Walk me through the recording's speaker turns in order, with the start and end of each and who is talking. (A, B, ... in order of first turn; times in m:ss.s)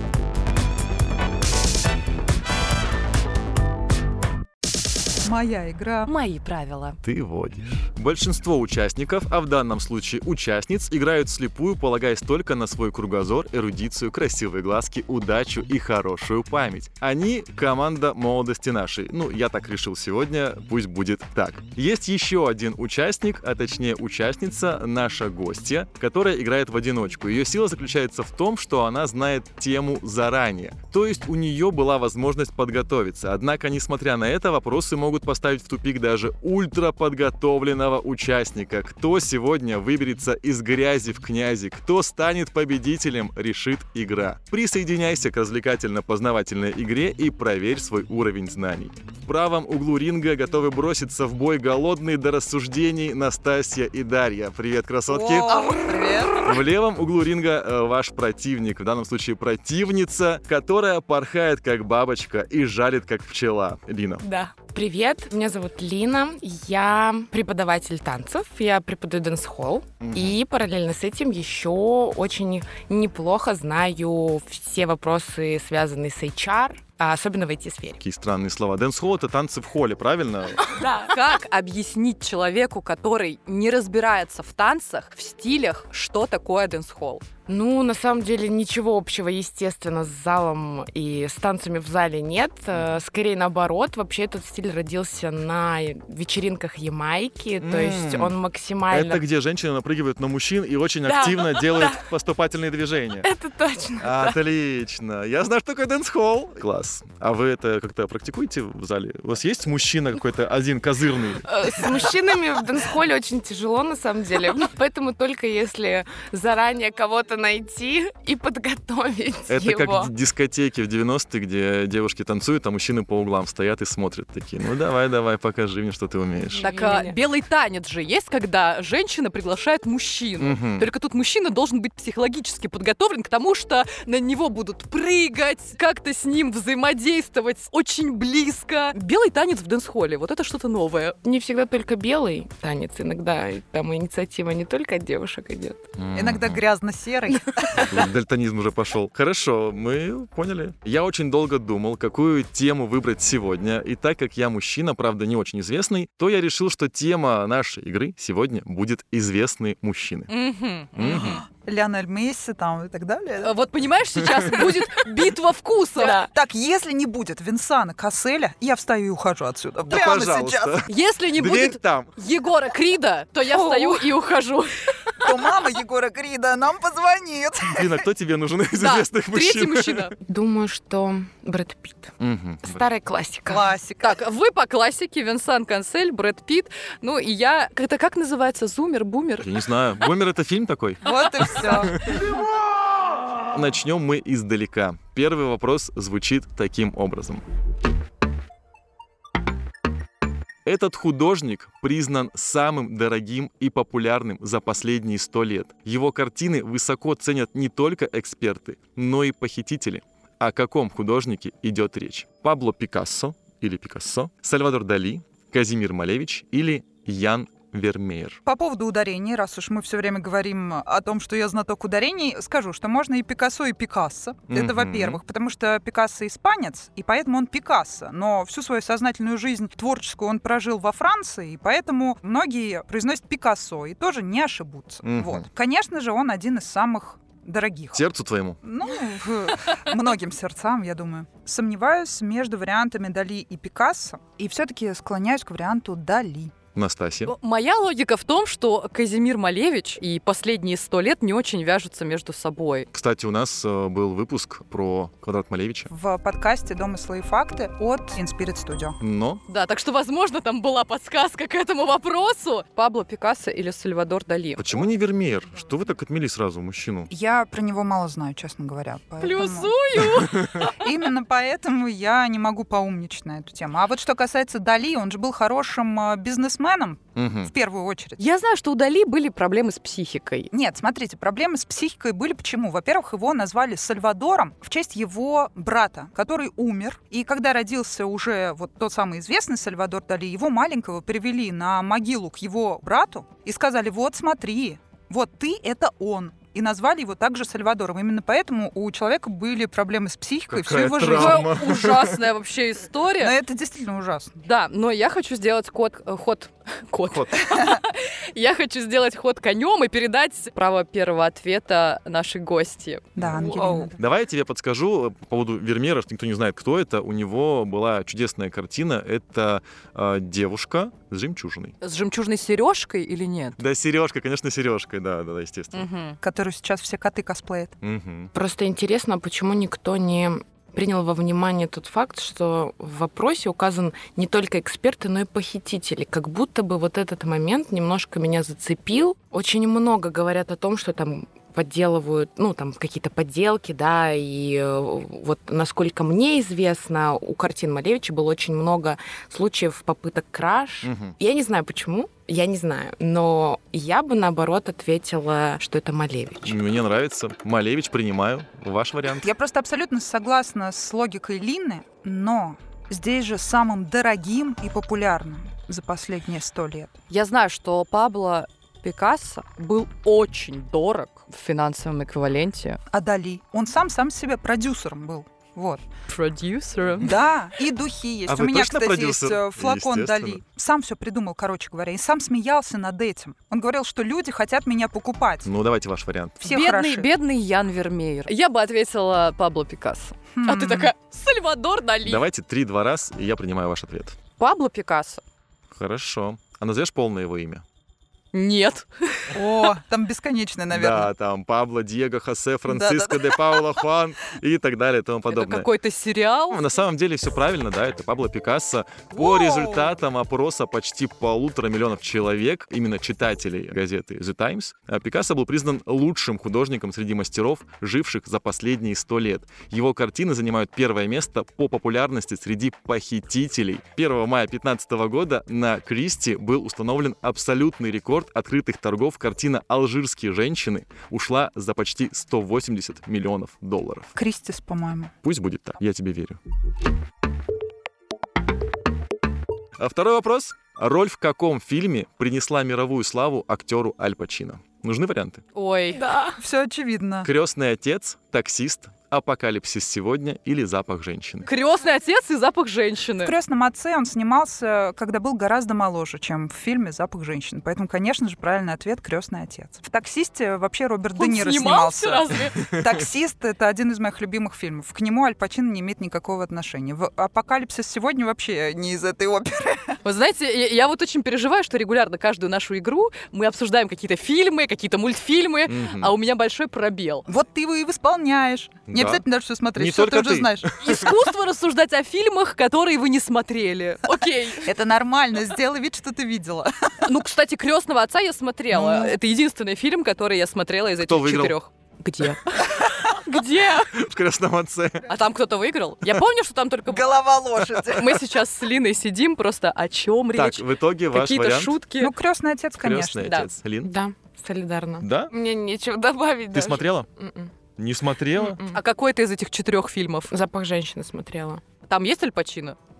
0:05.2-0:06.1 A
0:06.0-0:07.0 B
0:07.0-0:55.6 C
0:55.1-0:56.5 A
0:55.6-0:55.9 D
0:56.4-1:04.2 C
1:04.2-1:18.0 D
1:10.0-1:10.4 C
1:18.0-1:20.8 C
1:20.7-1:21.2 D
1:21.1-1:27.2 B
1:27.5-1:39.2 D
1:37.6-1:38.4 C
1:38.9-1:43.3 C
1:41.0-1:42.1 D
1:43.2-1:44.4 D
1:44.0-1:52.2 C
1:51.4-2:00.1 D
1:59.5-2:06.7 C
2:06.4-2:07.2 D
2:06.6-2:21.2 B
2:10.4-2:10.9 C
2:21.2-2:25.8 D
2:26.0-2:26.6 C
2:26.1-2:27.9 A
2:27.7-2:40.3 C
2:40.3-2:41.4 B
2:41.0-2:41.4 C
2:41.0-2:43.5 A
2:43.4-2:46.2 B
2:46.0-2:46.3 D
2:46.3-2:50.8 A
2:49.8-2:52.1 C
2:50.9-2:55.2 B
2:53.5-2:54.1 D
2:55.2-2:58.0 A
2:57.6-3:00.1 C
2:58.8-3:00.1 B
3:00.2-3:02.1 D
3:02.2-3:02.9 C
3:02.6-3:03.7 D
3:03.5-3:04.2 A
3:04.0-3:09.5 B
3:09.4-3:12.2 C
3:11.0-3:12.1 A
3:13.5-3:17.4 C
3:20.6-3:38.4 C
3:38.4-3:58.0 A
3:44.5-3:45.2 C
3:55.0-3:55.5 C
3:57.9-3:58.6 C
3:58.6-4:06.5 A
4:06.7-4:07.3 C
4:07.2-4:12.9 B
4:12.9-4:15.9 C
4:15.9-4:19.0 A
4:19.0-4:19.4 C
4:19.5-4:24.8 B
4:24.6-4:27.1 C
4:27.1-4:38.2 A
4:29.2-4:30.8 B
4:37.2-4:37.5 C
4:38.2-4:40.5 B
4:40.5-5:01.5 A
5:00.5-5:02.2 C
5:01.1-5:03.3 B
5:03.2-5:04.4 A
5:04.4-5:13.0 B
5:07.1-5:07.4 C
5:13.2-5:14.0 A
5:13.2-5:13.9 D
5:14.0-5:21.7 C
5:21.8-5:23.6 B
5:23.6-5:25.9 C
5:25.7-5:26.2 B
5:26.2-5:27.7 A
5:27.8-5:28.3 C
5:28.3-5:56.6 D
5:50.8-5:51.1 C
5:56.4-5:59.3 C
5:59.2-6:07.0 A
6:07.1-6:12.8 B
6:12.9-6:15.8 A
6:16.1-6:17.2 B
6:17.0-6:25.5 A
6:18.3-6:20.4 C
6:25.4-6:26.4 C
6:26.4-6:27.1 A
6:26.4-6:32.2 B
6:30.3-6:30.9 A
6:32.0-6:34.2 C
6:34.4-6:35.2 B
6:35.7-6:37.6 C
6:38.3-6:39.7 B
6:39.3-6:41.1 A
6:40.7-6:45.7 C
6:42.7-6:43.8 A
6:45.3-6:46.6 B
6:46.5-7:14.1 C
6:49.1-6:49.9 A
7:14.1-7:15.1 A
7:15.2-7:16.4 C
7:19.8-7:25.4 C
7:25.5-7:26.1 B
7:26.0-7:26.4 D
7:26.4-7:27.3 A
7:27.2-7:31.5 C
7:31.4-7:33.3 B
7:33.2-7:50.0 A
7:41.2-7:42.6 B
7:42.5-7:42.8 C
7:50.0-7:57.2 B
7:55.7-7:56.1 C
7:57.3-8:00.8 A
7:58.9-7:59.2 C
7:59.8-8:01.1 C
8:00.8-8:04.7 B
8:04.6-8:06.9 A
8:07.0-8:13.9 B
8:08.7-8:09.1 A
8:11.0-8:11.6 C
8:13.9-8:15.1 C
8:15.1-8:17.2 B
8:16.9-8:18.2 A
8:17.9-8:22.1 B
8:20.3-8:21.8 C
8:22.0-8:23.4 A
8:22.8-8:23.9 C
8:23.8-8:27.5 D
8:25.0-8:25.3 C
8:26.5-8:27.1 C
8:27.8-8:28.6 C
8:28.4-8:28.8 D
8:28.7-8:30.3 B
8:30.3-8:31.6 D
8:31.9-8:32.8 B